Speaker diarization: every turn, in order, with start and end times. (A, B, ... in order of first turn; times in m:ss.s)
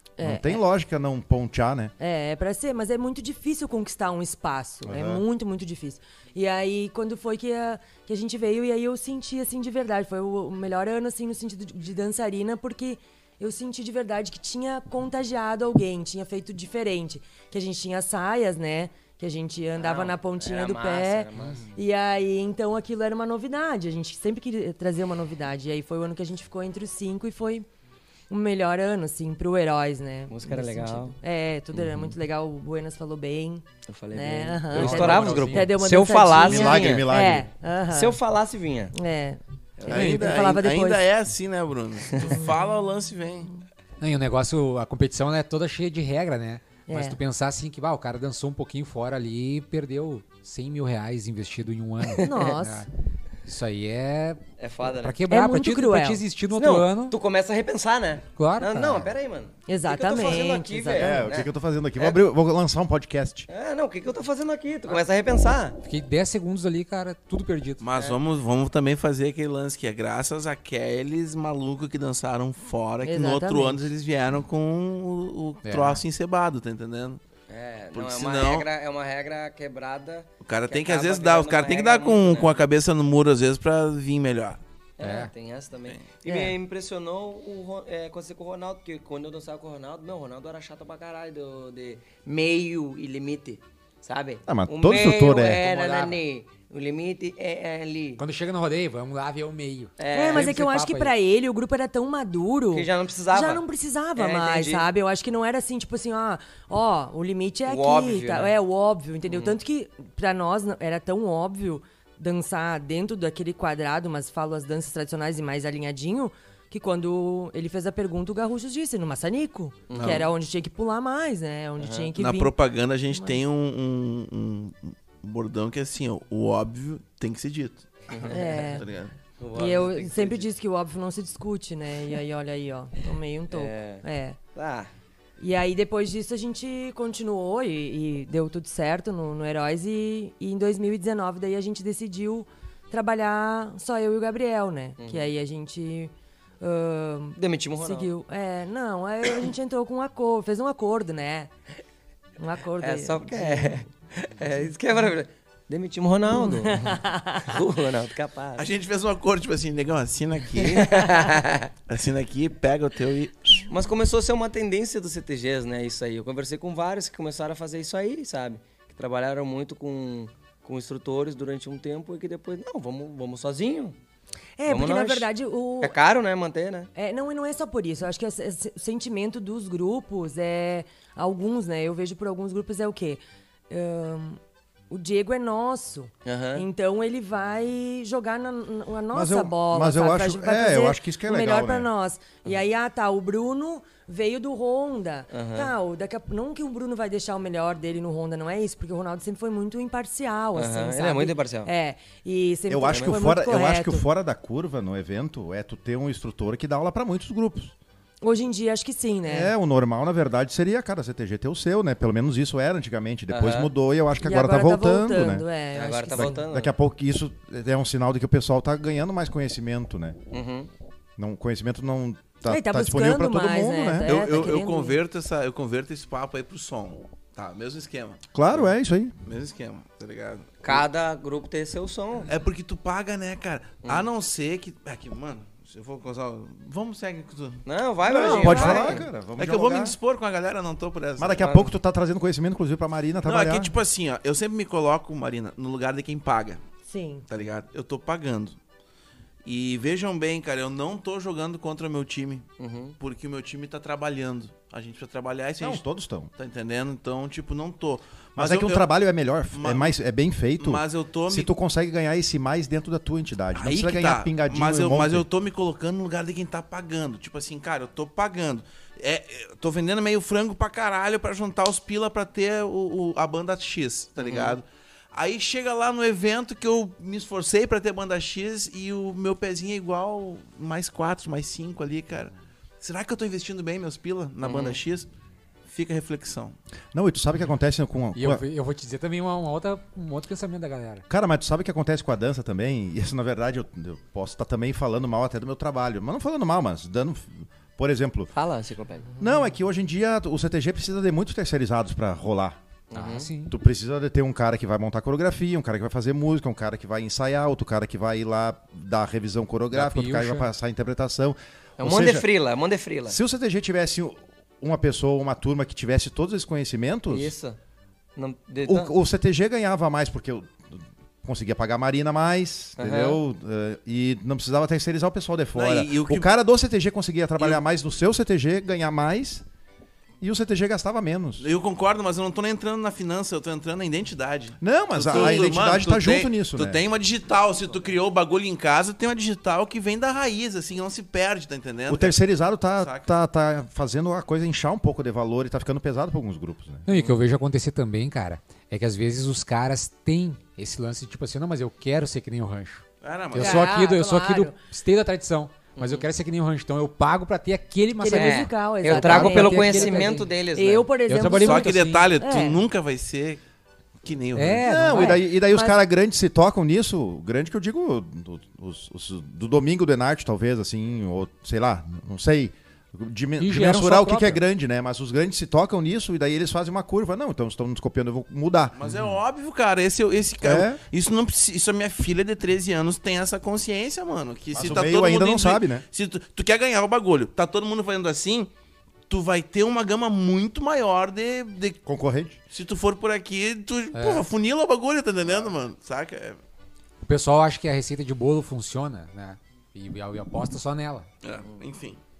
0:00.2-0:00.6 A
0:00.2-0:01.9 B
0:02.0-0:27.7 A
0:04.8-0:05.2 B
0:19.8-0:21.6 C
0:28.3-0:38.2 A
0:30.3-0:31.2 C
0:31.7-0:32.2 C
0:33.9-0:37.2 C
0:34.7-0:35.7 D
0:36.5-0:37.5 B
0:37.9-0:38.9 C
0:38.9-0:41.0 A
0:39.8-0:40.2 C
0:39.9-0:43.6 E
0:42.2-0:42.6 A
0:44.0-0:52.9 D
0:46.9-0:47.2 A
0:52.2-0:52.8 A
0:53.4-0:54.4 D
0:54.6-0:55.2 C
0:55.0-0:57.2 D
0:55.3-0:56.2 A
0:56.5-1:02.2 C
0:58.4-0:59.1 D
0:59.7-1:01.2 A
1:00.9-1:03.5 B
1:03.5-1:05.8 C
1:05.8-1:07.8 D
1:07.8-1:17.2 E
1:13.0-1:13.9 A
1:15.6-1:16.0 D
1:17.5-1:22.6 C
1:17.9-1:18.7 E
1:20.4-1:24.6 E
1:25.0-1:38.2 C
1:25.0-1:25.3 D
1:26.2-1:26.5 A
1:34.5-1:35.6 B
1:35.6-1:36.2 D
1:38.2-1:41.1 D
1:40.0-1:40.6 C
1:40.1-2:02.6 A
1:42.7-1:43.6 C
1:44.1-1:44.9 C
1:47.6-1:48.5 C
1:49.2-1:49.6 C
1:59.9-2:00.3 C
1:59.9-2:00.3 E
2:01.8-2:02.1 C
2:02.2-2:09.1 E
2:03.1-2:03.4 A
2:08.1-2:08.8 C
2:08.3-2:08.9 A
2:09.4-2:10.5 C
2:09.5-2:14.4 A
2:13.5-2:14.0 C
2:14.5-2:14.9 C
2:15.4-2:31.5 A
2:25.0-2:25.3 C
2:27.4-2:28.1 C
2:32.4-2:33.8 A
2:32.8-2:38.7 C
2:36.3-2:37.6 A
2:38.6-2:41.0 E
2:40.6-2:41.7 C
2:41.9-2:43.7 E
2:43.7-2:54.0 C
2:54.6-2:55.9 A
2:54.7-2:55.3 C
2:55.8-2:56.9 C
2:56.9-3:24.0 A
3:06.2-3:06.7 C
3:09.1-3:11.9 B
3:15.3-3:15.7 C
3:20.5-3:21.7 C
3:22.7-3:27.7 B
3:22.9-3:23.2 C
3:28.2-3:29.5 A
3:29.2-3:35.4 B
3:33.3-3:33.7 C
3:34.2-3:36.4 A
3:35.7-3:36.7 C
3:36.1-3:40.2 B
3:40.3-3:40.7 C
3:41.2-3:44.2 B
3:42.5-3:45.0 A
3:44.0-3:48.6 E
3:48.3-3:49.1 B
3:49.2-3:50.8 E
3:50.6-3:52.3 C
3:52.3-3:57.6 E
3:57.6-3:59.0 C
3:58.0-4:00.0 B
3:58.1-3:58.9 A
3:58.3-4:01.5 E
4:01.2-4:03.7 B
4:01.4-4:01.7 C
4:03.2-4:06.6 E
4:06.8-4:07.2 A
4:07.3-4:08.6 E
4:09.4-4:12.4 E
4:12.6-4:13.0 C
4:13.0-4:15.8 E
4:15.6-4:16.3 B
4:16.4-4:18.8 E
4:18.4-4:25.2 B
4:19.5-4:20.0 E
4:20.6-4:21.5 E
4:23.5-4:45.1 E
4:34.2-4:34.6 C
4:44.4-4:44.8 C
4:45.6-4:46.6 E
4:46.9-4:48.4 B
4:48.1-4:51.0 D
4:51.1-4:58.3 B
4:58.3-4:59.1 C
4:59.2-5:02.6 B
5:02.9-5:03.3 C
5:02.9-5:03.6 D
5:03.5-5:12.2 B
5:09.7-5:10.5 D
5:11.8-5:13.2 C
5:13.1-5:17.3 B
5:17.1-5:17.6 C
5:18.2-5:18.9 C
5:18.6-5:29.4 B
5:22.8-5:23.2 C
5:25.5-5:26.3 E
5:30.2-5:31.5 B
5:31.4-5:42.2 E
5:34.6-5:36.8 B
5:41.9-5:46.8 B
5:42.8-5:43.0 E
5:46.9-6:00.3 D
5:46.9-5:47.2 C
5:53.0-5:53.7 E
5:53.4-5:54.6 A
5:55.8-5:56.1 C
5:58.0-6:02.6 A
5:58.1-6:00.9 C
6:01.1-6:02.1 D
6:01.3-6:03.4 E
6:04.0-6:04.8 E
6:04.3-6:05.2 D
6:04.6-6:18.8 B
6:04.9-6:05.8 A
6:13.4-6:14.4 D
6:18.7-6:28.5 E
6:20.4-6:20.8 B
6:24.5-6:25.8 B
6:29.1-6:31.8 E
6:31.8-6:32.4 B
6:32.5-6:36.4 E
6:33.9-6:34.3 D
6:37.0-6:41.1 D
6:41.2-6:42.0 E